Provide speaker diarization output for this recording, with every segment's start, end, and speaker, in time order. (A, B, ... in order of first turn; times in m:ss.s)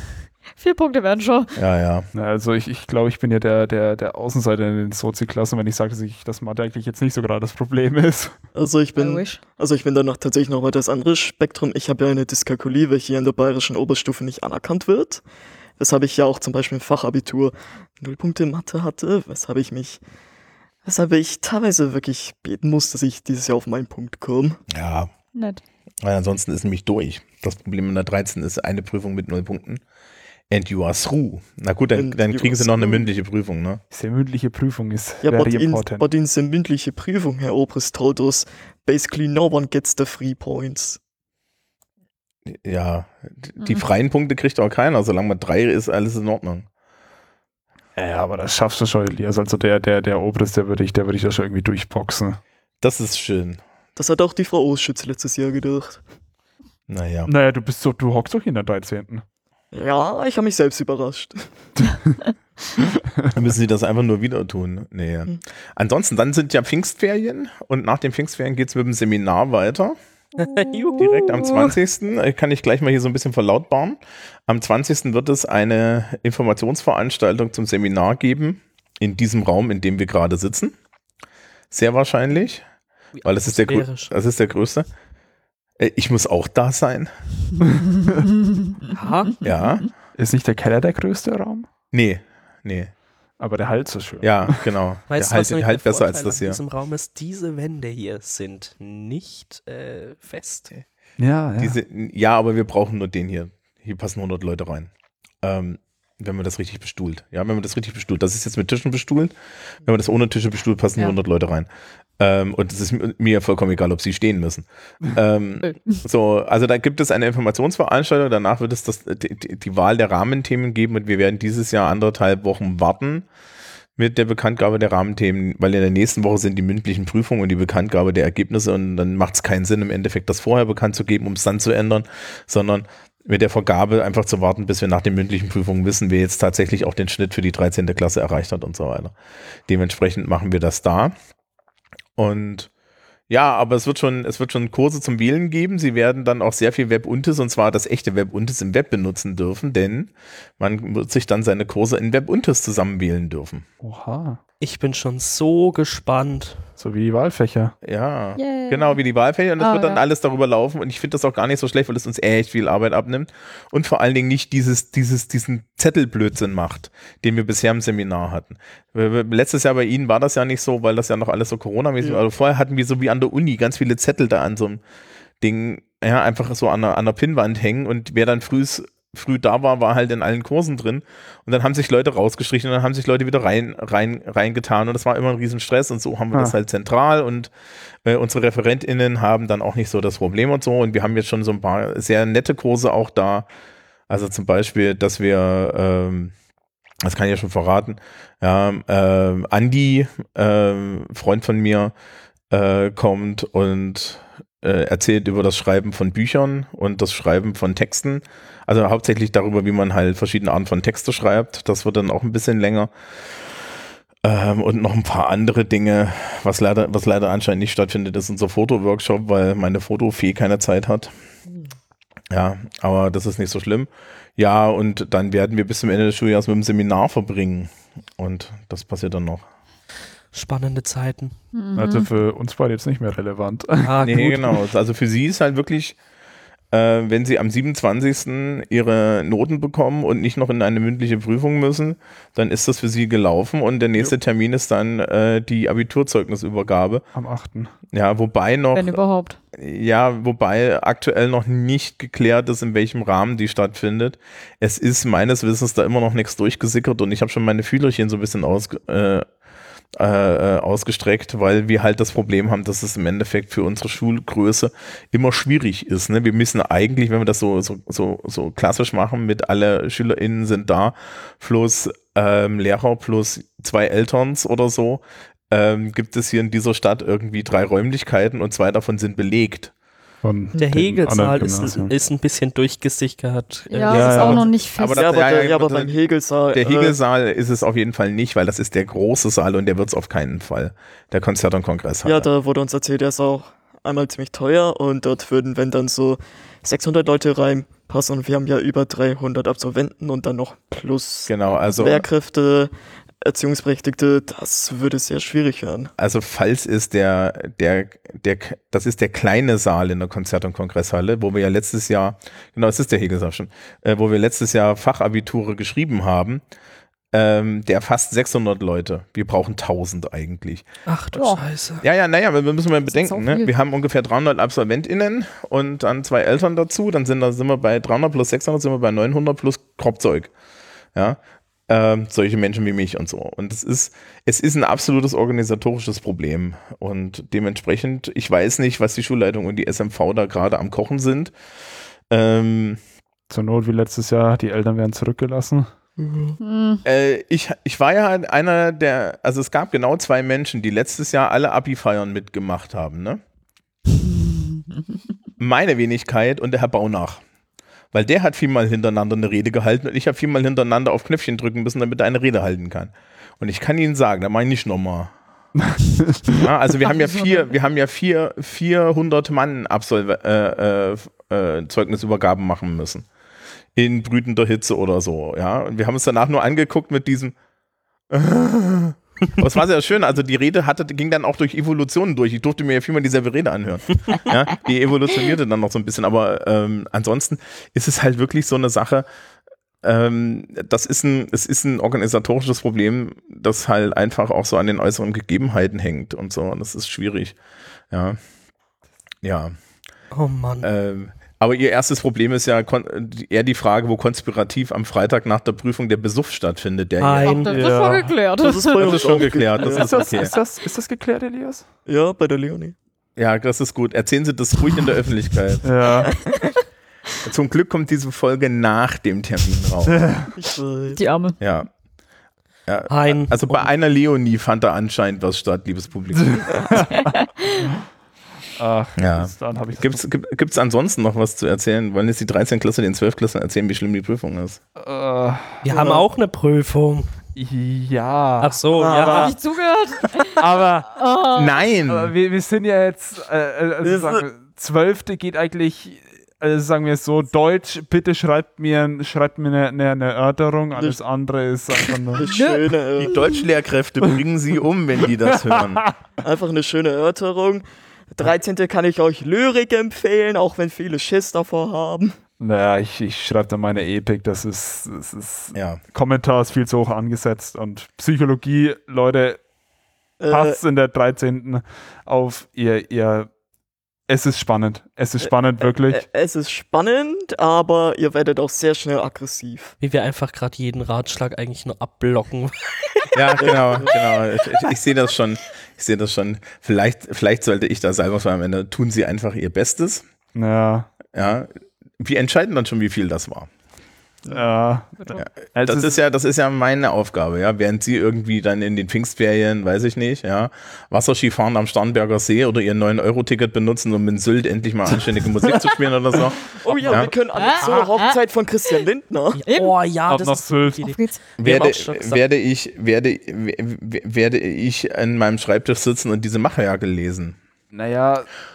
0:00.6-0:01.6 A
0:01.6-0:02.1 B
0:02.1-0:08.4 C
0:08.6-0:15.2 D
0:09.0-0:09.4 A
0:15.8-0:20.0 D
0:20.8-0:24.6 D
0:24.7-0:25.1 B
0:25.3-0:25.6 A
0:26.0-0:29.8 B
0:30.5-0:33.8 B
0:32.0-0:33.1 D
0:33.9-0:36.1 C
0:35.2-0:41.0 D
0:42.5-0:46.7 B
0:43.6-0:43.9 A
0:48.0-0:52.4 C
0:52.8-0:53.6 B
0:54.0-0:56.0 D
0:56.9-0:57.3 B
0:57.3-0:59.2 C
0:59.7-1:01.6 D
1:03.3-1:10.0 B
1:10.4-1:11.7 E
1:10.9-1:11.2 A
1:11.0-1:20.8 B
1:21.7-1:22.6 B
1:23.2-1:24.1 E
1:23.2-1:24.9 B
1:25.8-1:27.1 B
1:28.9-1:29.5 E
1:29.4-1:29.9 B
1:30.2-1:31.7 C
1:31.9-1:32.9 B
1:33.4-1:34.6 C
1:34.2-1:36.6 B
1:35.1-1:40.7 E
1:41.2-1:41.8 C
1:41.6-1:44.9 B
1:45.4-1:51.7 B
1:52.2-2:03.3 B
1:55.6-1:56.0 A
2:04.0-2:19.2 B
2:19.7-2:21.2 B
2:22.2-2:22.7 B
2:23.3-2:33.7 B
2:33.8-2:34.4 C
2:34.6-2:36.7 E
2:36.8-2:37.8 C
2:37.8-2:54.8 B
2:38.4-2:39.0 A
2:39.6-2:40.0 A
2:55.4-3:07.5 B
3:08.0-3:13.5 B
3:14.1-3:16.3 B
3:17.0-3:21.9 B
3:22.5-3:33.6 B
3:34.2-3:41.1 B
3:42.3-3:49.5 B
3:50.3-3:51.4 E
3:51.5-3:52.1 A
3:51.7-3:54.0 C
3:53.8-3:54.6 E
3:54.0-3:56.0 B
3:56.7-4:07.1 B
4:07.1-4:07.7 C
4:07.9-4:09.0 B
4:08.7-4:09.4 A
4:09.5-4:19.3 B
4:20.0-4:39.7 B
4:40.2-4:41.9 C
4:40.6-4:44.4 E
4:43.7-4:45.0 A
4:43.9-4:44.5 C
4:44.1-4:46.0 B
4:44.9-4:47.0 D
4:46.5-4:52.3 B
4:52.0-5:02.7 D
5:01.3-5:02.0 B
5:03.2-5:05.9 D
5:06.0-5:16.4 B
5:17.1-5:20.7 B
5:20.9-5:21.8 E
5:21.2-5:21.4 A
5:21.8-5:30.3 B
5:22.9-5:23.5 A
5:31.0-5:41.3 B
5:42.1-5:42.8 B
5:43.3-5:45.7 C
5:46.0-5:46.4 D
5:46.4-5:46.8 A
5:46.8-5:53.2 B
5:55.4-5:57.2 B
5:57.9-6:05.1 B
6:05.7-6:06.4 C
6:06.3-6:13.1 B
6:13.8-6:17.4 B
6:18.1-6:29.1 B
6:29.8-6:37.4 B
6:37.9-6:38.2 B
6:39.2-6:39.6 B
6:40.1-6:40.7 E
6:40.6-6:47.4 B
6:47.0-6:47.7 E
6:47.2-6:49.3 A
6:47.4-6:48.2 C
6:48.4-6:50.1 D
6:48.8-6:50.4 B
6:49.6-6:51.7 C
6:51.9-6:52.8 D
6:53.2-6:55.8 B
6:55.6-6:56.2 C
6:57.2-7:00.0 B
6:59.9-7:00.3 C
7:00.4-7:01.0 D
7:00.9-7:01.4 A
7:01.4-7:01.7 B
7:02.7-7:06.7 B
7:02.9-7:03.7 E
7:06.2-7:07.9 C
7:07.0-7:07.3 A
7:08.5-7:10.0 C
7:09.0-7:14.6 B
7:14.8-7:15.7 C
7:15.6-7:17.2 E
7:15.7-7:16.1 D
7:17.4-7:19.3 C
7:18.4-7:19.4 E
7:18.7-7:19.3 D
7:19.1-7:21.6 A
7:20.2-7:21.0 C
7:21.3-7:22.1 B
7:21.9-7:32.3 C
7:23.8-7:24.2 D
7:32.1-7:33.2 D
7:32.3-7:33.4 A
7:33.0-7:35.9 B
7:35.5-7:35.9 C
7:36.2-7:42.2 D
7:42.4-7:49.4 C
7:45.5-7:45.8 B
7:50.2-7:50.6 D
7:50.3-7:53.3 C
7:54.1-7:56.1 C
7:55.2-7:59.8 D
7:59.8-8:03.6 E
8:03.1-8:10.1 B
8:03.4-8:03.9 D
8:10.3-8:10.9 C
8:11.1-8:13.5 B
8:14.3-8:16.0 C
8:15.2-8:27.1 B
8:26.5-8:29.4 D
8:26.7-8:27.8 E
8:27.4-8:28.2 A
8:29.3-8:32.2 E
8:29.5-8:29.7 A
8:30.1-8:30.8 C
8:30.8-8:31.2 A
8:31.4-8:37.4 B
8:37.7-8:38.3 C